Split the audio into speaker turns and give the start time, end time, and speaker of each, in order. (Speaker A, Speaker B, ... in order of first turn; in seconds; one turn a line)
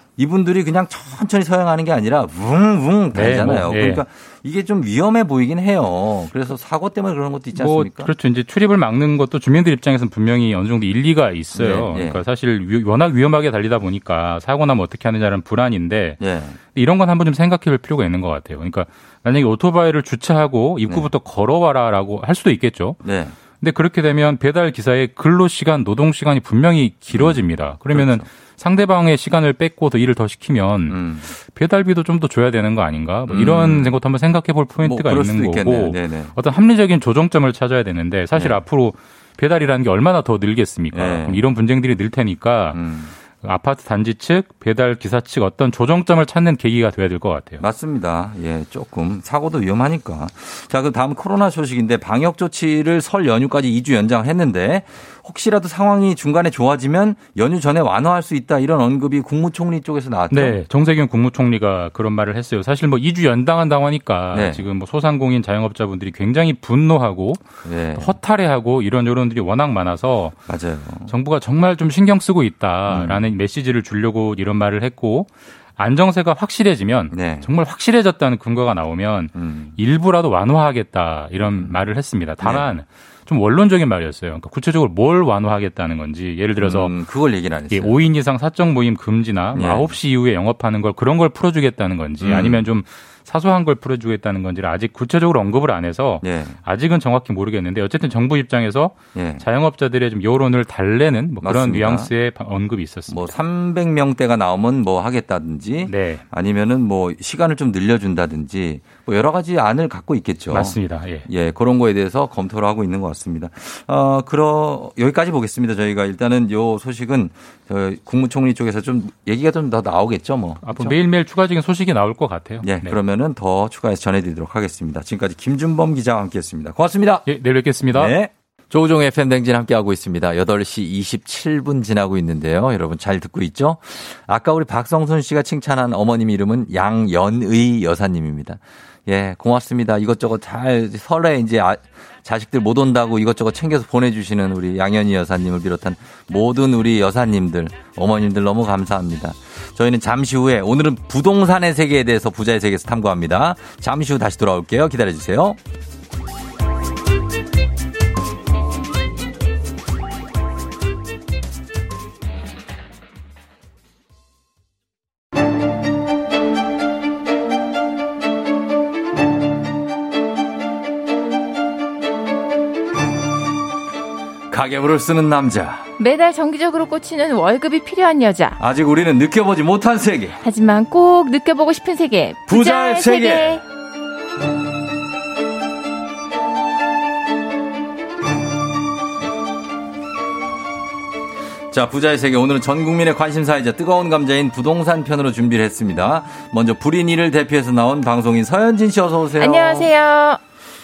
Speaker A: 0.2-8.1
Speaker B: 3.1-4.0
Speaker B: 7.5-23.0
Speaker A: 11.5-12.2
Speaker A: 16.2-16.6
Speaker A: 23.0-23.3
Speaker B: 23.6-42.8
Speaker A: 27.1-28.3
Speaker A: 30.9-31.3
Speaker A: 33.3-34.0
Speaker A: 34.8-36.3
Speaker A: 38.3-38.6
Speaker A: 40.9-41.4
Speaker A: 42.7-43.1
Speaker B: 43.3-47.6
Speaker A: 47.6-60.6
Speaker B: 60.3-70.4
Speaker A: 64.3-64.7
Speaker A: 67.6-68.1
Speaker A: 70.5-71.1
Speaker B: 71.1-86.9
Speaker A: 72.9-73.3
Speaker A: 77.1-77.5
Speaker A: 79.3-79.8
Speaker A: 81.4-81.8
Speaker A: 82.4-82.7
Speaker A: 86.6-88.0
Speaker B: 87.7-103.3
Speaker A: 89.5-89.9
Speaker A: 92.2-92.7
Speaker A: 96.2-96.6
Speaker A: 99.1-99.4
Speaker A: 101.4-102.1
Speaker A: 103.1-121.0
Speaker B: 105.9-106.2
Speaker B: 110.5-111.3
Speaker B: 120.6-123.0
Speaker A: 122.6-127.3
Speaker B: 127.2-128.1
Speaker A: 127.9-155.6
Speaker A: 174.5-175.8
Speaker C: 176.0-178.6
Speaker A: 178.6-180.3
Speaker C: 180.4-183.6
Speaker A: 182.5-183.6
Speaker A: 191.7-199.9
Speaker C: 199.4-200.4